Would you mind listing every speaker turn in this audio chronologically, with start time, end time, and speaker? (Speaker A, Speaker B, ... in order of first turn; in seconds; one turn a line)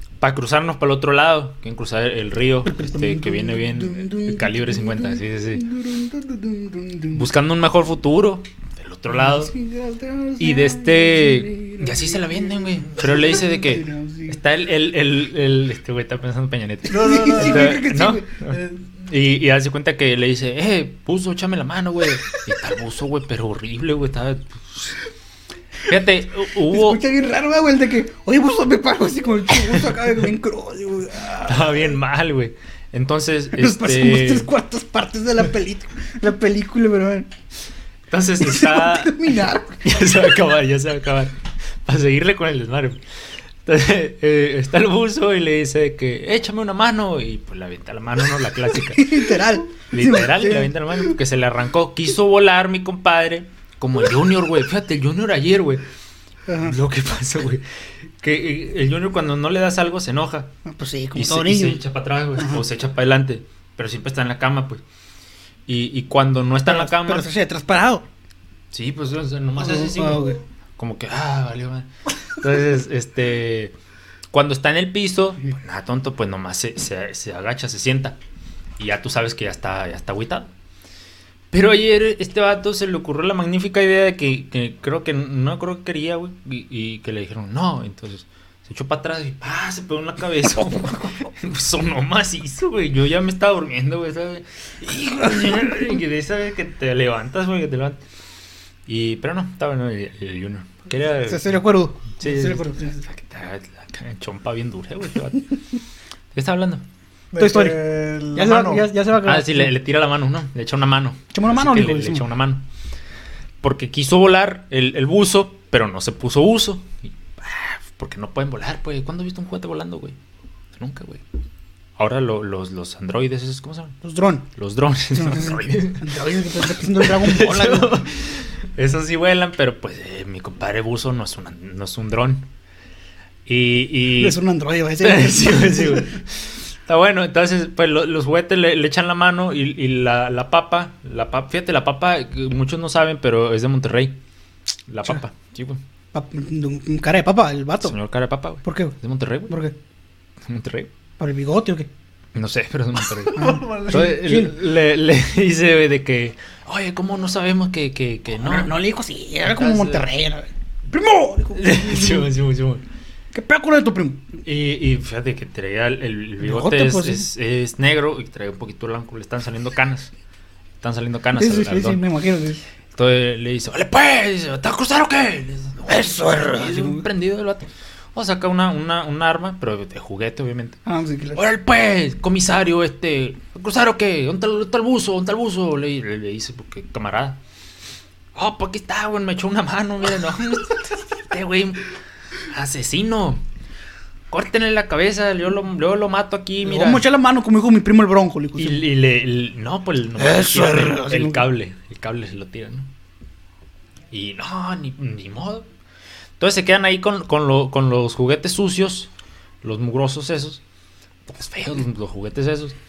Speaker A: 0.2-5.6
Speaker B: 2.6-7.2
Speaker A: 7.1-9.5
Speaker B: 9.1-14.4
Speaker A: 10.4-24.9
Speaker C: 16.9-17.9
Speaker B: 16.9-18.3
Speaker A: 25.9-27.0
Speaker B: 26.6-31.9
Speaker A: 31.4-34.5
Speaker B: 33.5-37.3
Speaker A: 38.1-43.0
Speaker B: 38.4-39.8
Speaker A: 43.6-55.8
Speaker B: 48.9-51.1
Speaker B: 56.5-56.7
Speaker A: 56.6-57.6
Speaker A: 58.2-60.5
Speaker B: 60.6-61.8
Speaker A: 61.1-64.8
Speaker B: 62.4-62.6
Speaker A: 65.7-67.3
Speaker B: 66.6-68.0
Speaker A: 68.7-73.7
Speaker B: 69.6-70.4
Speaker A: 74.3-78.2
Speaker A: 78.8-80.5
Speaker A: 81.5-98.0
Speaker A: 98.9-101.6
Speaker B: 101.2-103.0
Speaker A: 102.1-105.5
Speaker A: 106.3-106.8
Speaker C: 107.3-108.9
Speaker B: 107.4-109.7
Speaker A: 109.2-112.6
Speaker B: 111.3-112.3
Speaker A: 113.6-120.2
Speaker A: 120.7-121.2
Speaker A: 122.0-124.0
Speaker B: 124.0-124.5
Speaker A: 124.5-132.5
Speaker B: 125.1-128.0
Speaker A: 133.4-134.4
Speaker B: 134.2-136.1
Speaker A: 135.0-144.2
Speaker A: 144.9-145.8
Speaker B: 146.1-148.0
Speaker A: 147.8-149.5
Speaker B: 148.6-148.9
Speaker B: 149.5-149.7
Speaker A: 150.4-150.9
Speaker B: 151.2-151.9
Speaker A: 152.3-158.7
Speaker B: 153.3-154.5
Speaker C: 153.3-154.1
Speaker B: 158.4-162.3
Speaker A: 159.4-160.1
Speaker A: 161.5-162.8
Speaker B: 163.3-164.3
Speaker A: 164.4-170.1
Speaker B: 166.4-167.3
Speaker A: 170.8-172.0
Speaker B: 171.3-172.6
Speaker A: 172.9-180.8
Speaker B: 175.8-177.1
Speaker B: 180.8-181.4
Speaker A: 181.3-187.4
Speaker A: 188.3-191.9
Speaker A: 192.5-193.4
Speaker A: 194.3-197.0
Speaker B: 196.6-198.8
Speaker A: 198.6-202.9
Speaker B: 200.2-201.4
Speaker A: 204.1-205.7
Speaker A: 206.4-209.1
Speaker A: 209.6-210.6
Speaker A: 211.3-212.8